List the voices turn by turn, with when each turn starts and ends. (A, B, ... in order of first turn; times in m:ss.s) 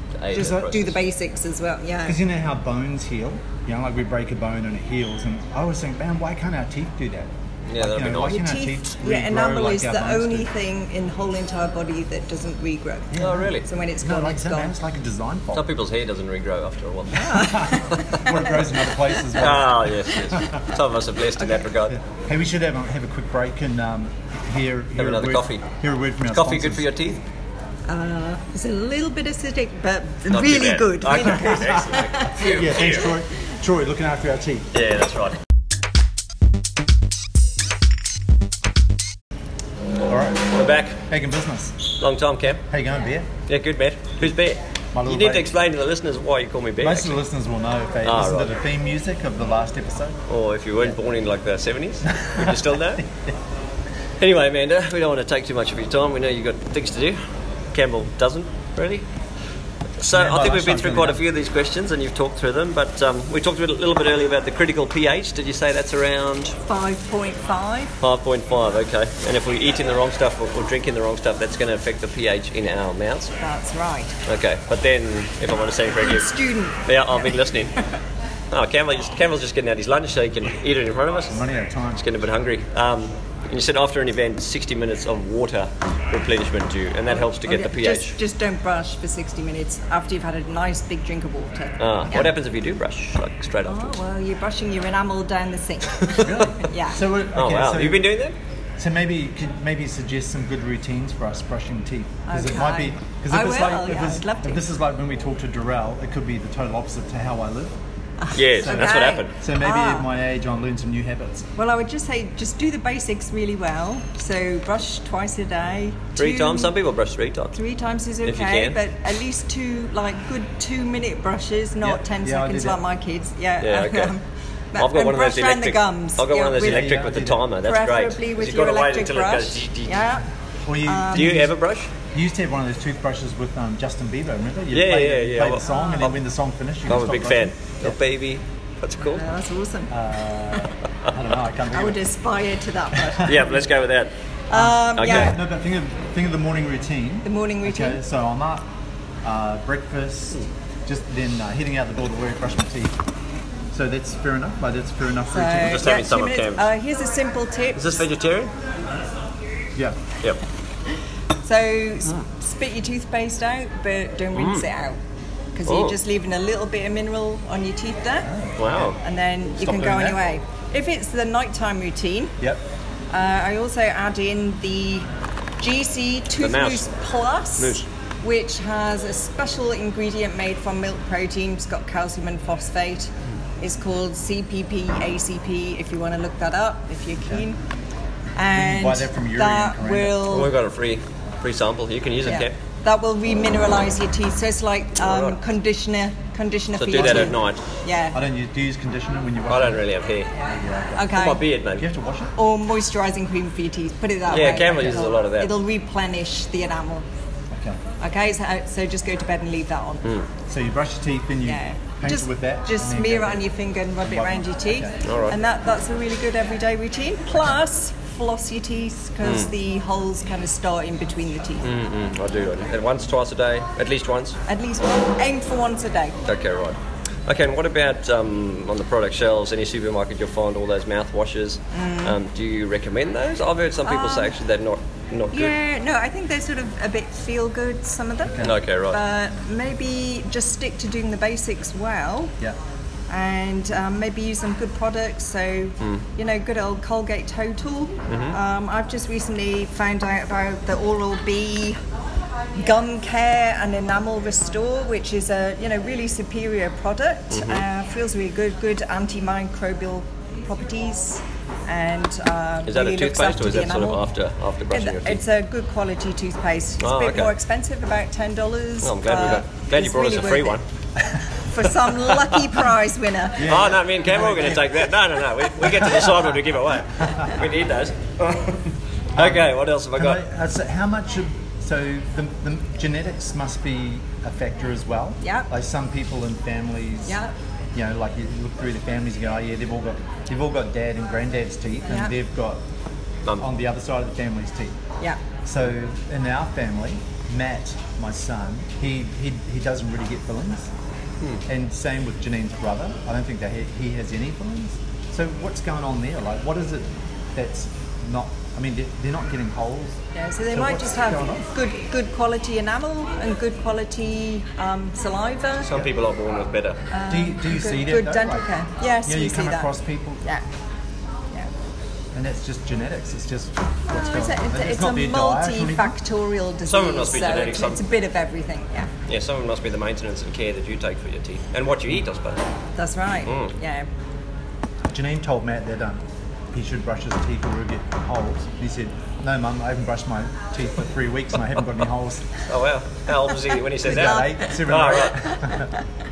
0:00.2-0:01.0 A
0:00.3-0:02.2 B
0:00.3-0:00.8 C
0:02.0-0:10.5 C
0:07.7-0:08.4 A
0:08.3-0:14.7 B
0:13.1-0:15.7 C
0:13.2-0:13.6 A
0:15.5-0:17.2 A
0:17.1-0:18.4 B
0:17.2-0:20.6 C
0:19.4-0:22.0 A
0:21.9-0:26.9 C
0:25.0-0:25.7 A
0:26.3-0:27.2 A
0:27.9-0:32.5 B
0:30.3-0:33.1 A
0:31.2-0:34.7 C
0:34.7-0:35.4 A
0:40.1-0:40.5 C
0:40.5-0:41.0 A
0:41.0-0:41.8 C
0:42.0-0:42.6 A
0:42.7-0:43.3 C
0:43.5-0:47.2 A
0:44.9-0:45.5 C
0:46.8-0:50.2 C
0:48.0-0:48.5 A
0:50.3-0:53.0 A
0:52.1-0:53.3 C
0:54.2-0:57.2 A
0:57.7-0:59.0 A
1:00.0-1:06.6 A
1:00.1-1:01.2 C
1:06.6-1:07.9 B
1:08.0-1:13.3 A
1:13.4-1:14.2 B
1:14.2-1:16.3 A
1:16.0-1:17.2 B
1:16.8-1:17.7 A
1:18.5-1:21.4 A
1:21.3-1:22.0 C
1:22.0-1:28.1 A
1:27.1-1:32.3 B
1:31.8-1:34.0 A
1:33.6-1:37.0 B
1:36.0-1:36.5 A
1:36.2-1:38.1 C
1:37.3-1:38.4 A
1:38.8-1:47.7 C
1:42.3-1:44.6 B
1:48.2-1:50.1 B
1:48.3-1:49.3 A
1:48.6-1:51.5 C
1:51.6-1:56.7 B
1:56.2-1:57.5 A
1:57.5-2:10.2 B
1:58.2-1:58.8 A
2:01.8-2:02.8 C
2:03.6-2:04.1 A
2:04.8-2:10.1 A
2:06.6-2:07.5 C
2:10.6-2:11.5 C
2:10.8-2:11.4 B
2:11.1-2:11.9 A
2:12.1-2:18.0 C
2:14.7-2:16.1 A
2:15.6-2:16.1 B
2:16.9-2:19.2 A
2:19.0-2:19.9 B
2:19.9-2:22.0 C
2:21.7-2:23.6 B
2:23.0-2:23.4 C
2:23.2-2:24.1 A
2:24.5-2:25.4 B
2:24.5-2:28.6 C
2:24.9-2:25.3 A
2:27.2-2:28.0 B
2:29.2-2:32.9 C
2:33.7-2:35.8 C
2:35.3-2:38.0 B
2:35.6-2:36.7 A
2:37.7-2:38.5 A
2:41.4-2:45.0 B
2:44.3-2:44.7 A
2:45.6-2:48.3 B
2:45.6-2:46.0 A
2:48.2-2:48.9 C
2:48.6-2:49.0 A
2:49.0-2:52.4 B
2:49.6-2:50.2 C
2:53.1-2:55.1 B
2:55.6-3:07.6 B
2:56.4-2:56.9 A
2:57.6-2:57.8 A
3:08.4-3:10.5 B
3:08.5-3:10.4 C
3:10.2-3:12.5 A
3:12.2-3:18.2 B
3:15.0-3:15.4 A
3:16.8-3:17.6 A
3:16.9-3:17.3 C
3:18.1-3:19.8 C
3:19.5-3:20.3 A
3:20.4-3:21.4 B
3:20.5-3:21.1 C
3:21.1-3:21.8 A
3:21.8-3:22.3 C
3:22.4-3:27.0 B
3:24.3-3:25.6 A
3:27.5-3:27.8 C
3:28.0-3:30.0 B
3:30.5-3:33.4 C
3:31.4-3:41.7 B
3:34.0-3:34.9 C
3:35.0-3:35.4 A
3:39.2-3:39.5 A
3:41.6-3:44.4 A
3:44.5-3:46.2 B
3:46.2-3:55.5 A
3:51.7-3:52.2 B
3:53.8-3:54.4 B
3:55.3-4:02.3 B
3:58.2-3:58.6 C
3:58.4-3:59.0 A
4:03.1-4:11.8 B
4:05.8-4:06.0 A
4:08.1-4:08.4 A
4:12.5-4:24.1 B
4:17.3-4:17.6 A
4:22.6-4:25.2 A
4:24.7-4:30.6 B
4:26.8-4:27.3 A
4:28.8-4:30.6 A
4:31.5-4:33.5 B
4:33.4-4:34.9 C
4:33.4-4:40.2 A
4:35.7-4:36.2 C
4:39.2-4:47.2 C
4:45.2-4:45.5 B
4:47.0-4:47.3 B
4:47.7-4:52.6 C
4:51.8-4:52.1 B
4:53.4-4:54.8 C
4:55.4-5:00.7 C
5:01.5-5:10.0 C
5:10.1-5:15.7 B
5:10.5-5:11.5 C
5:15.6-5:16.8 A
5:16.9-5:20.4 B
5:17.1-5:18.5 C
5:19.0-5:20.2 C
5:22.1-5:26.0 C
5:23.9-5:28.9 B
5:26.7-5:27.8 A
5:29.1-5:32.4 A
5:32.8-5:33.9 B
5:33.2-5:33.5 A
5:34.9-5:36.0 C
5:36.5-5:42.3 C
5:42.4-5:45.2 A
5:43.8-5:45.7 C
5:43.9-5:44.4 B